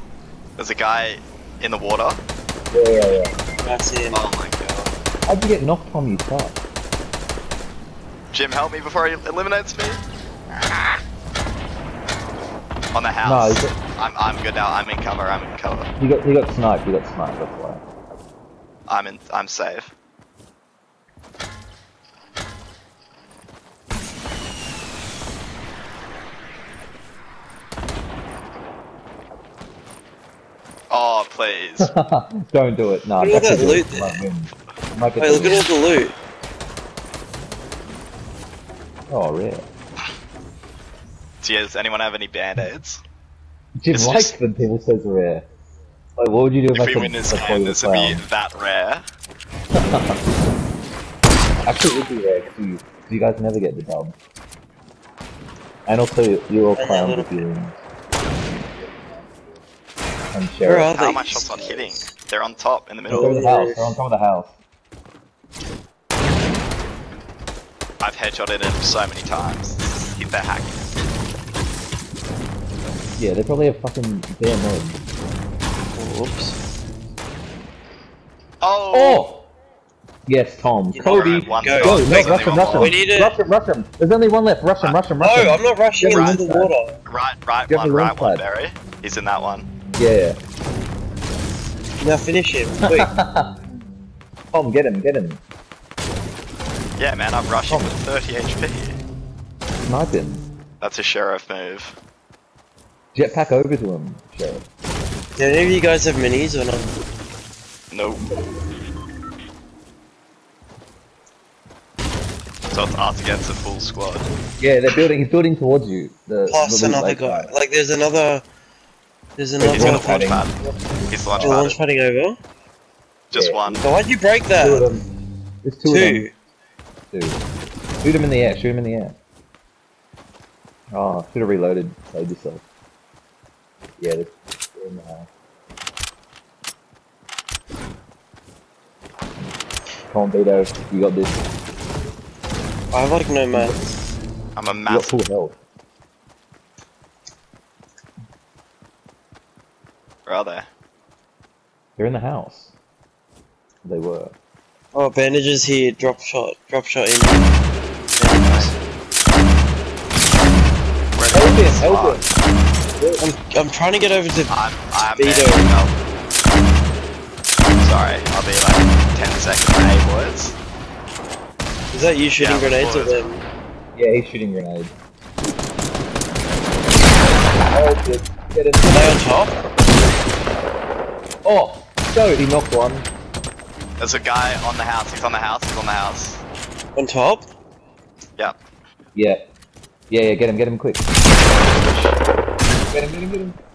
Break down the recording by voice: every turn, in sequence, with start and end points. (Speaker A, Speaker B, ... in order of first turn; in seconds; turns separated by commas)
Speaker A: 0.6-2.2, Speaker B: 2.7-3.4, Speaker C: 3.6-4.2, Speaker A: 4.1-4.9, Speaker B: 5.3-6.6, Speaker A: 8.3-10.0, Speaker A: 10.6-11.0, Speaker A: 12.9-15.9, Speaker B: 13.2-13.7, Speaker B: 16.0-17.8, Speaker A: 18.9-19.9, Speaker A: 30.9-31.9, Speaker B: 31.8-35.7, Speaker C: 33.2-34.2, Speaker C: 35.2-36.2, Speaker B: 39.1-39.7, Speaker A: 41.4-43.0, Speaker B: 43.8-45.5, Speaker A: 43.9-44.4, Speaker B: 46.2-48.2, Speaker A: 46.7-49.0, Speaker B: 49.8-50.2, Speaker B: 51.6-54.1, Speaker B: 55.9-57.8, Speaker C: 56.8-57.5, Speaker B: 58.8-59.3, Speaker B: 60.3-60.9, Speaker C: 60.6-62.1, Speaker A: 60.9-63.4, Speaker C: 63.1-63.9, Speaker B: 63.1-64.6, Speaker A: 68.0-70.7, Speaker B: 73.2-75.0, Speaker C: 75.9-76.6, Speaker A: 78.6-79.3, Speaker B: 78.9-79.5, Speaker B: 80.2-86.7, Speaker C: 80.9-83.4, Speaker A: 81.0-83.0, Speaker C: 85.2-87.0, Speaker A: 86.0-86.4, Speaker A: 87.0-89.7, Speaker B: 87.7-88.5, Speaker B: 89.9-90.4, Speaker C: 92.0-93.1, Speaker B: 93.0-93.6, Speaker B: 94.5-95.4, Speaker A: 97.0-99.0, Speaker B: 97.7-98.0, Speaker B: 99.9-100.5, Speaker A: 100.8-102.0, Speaker B: 103.1-104.6, Speaker C: 105.4-107.0, Speaker A: 107.9-108.2, Speaker A: 112.7-114.2, Speaker B: 114.6-117.5, Speaker C: 116.5-118.4, Speaker C: 119.4-120.4, Speaker B: 119.6-121.6, Speaker A: 119.7-120.6, Speaker A: 121.1-121.8, Speaker C: 121.4-122.4, Speaker A: 123.3-123.8, Speaker B: 123.3-123.8, Speaker C: 123.8-124.9, Speaker B: 124.6-125.1, Speaker B: 125.6-126.3, Speaker C: 125.8-126.3, Speaker B: 127.1-127.4, Speaker B: 128.0-129.2, Speaker B: 130.9-132.6, Speaker B: 134.0-135.3, Speaker B: 140.1-141.4, Speaker C: 142.9-144.0, Speaker B: 143.5-143.8, Speaker A: 144.6-145.2, Speaker B: 144.9-145.6, Speaker A: 150.2-150.7, Speaker B: 152.0-152.7, Speaker B: 153.8-154.3, Speaker C: 154.9-157.6, Speaker C: 158.1-158.8, Speaker A: 158.4-158.7, Speaker A: 161.1-162.3, Speaker B: 161.3-162.3, Speaker B: 163.0-163.2, Speaker C: 163.2-164.6, Speaker A: 164.5-165.9, Speaker C: 165.1-165.7, Speaker A: 167.8-170.6, Speaker C: 171.9-173.4, Speaker A: 172.4-173.3, Speaker B: 173.9-174.9, Speaker B: 177.1-179.3, Speaker C: 178.9-179.6, Speaker B: 181.4-183.1, Speaker A: 184.0-186.4, Speaker C: 186.9-187.5, Speaker B: 189.1-189.4, Speaker B: 190.1-191.1, Speaker A: 191.7-192.1, Speaker B: 192.9-193.6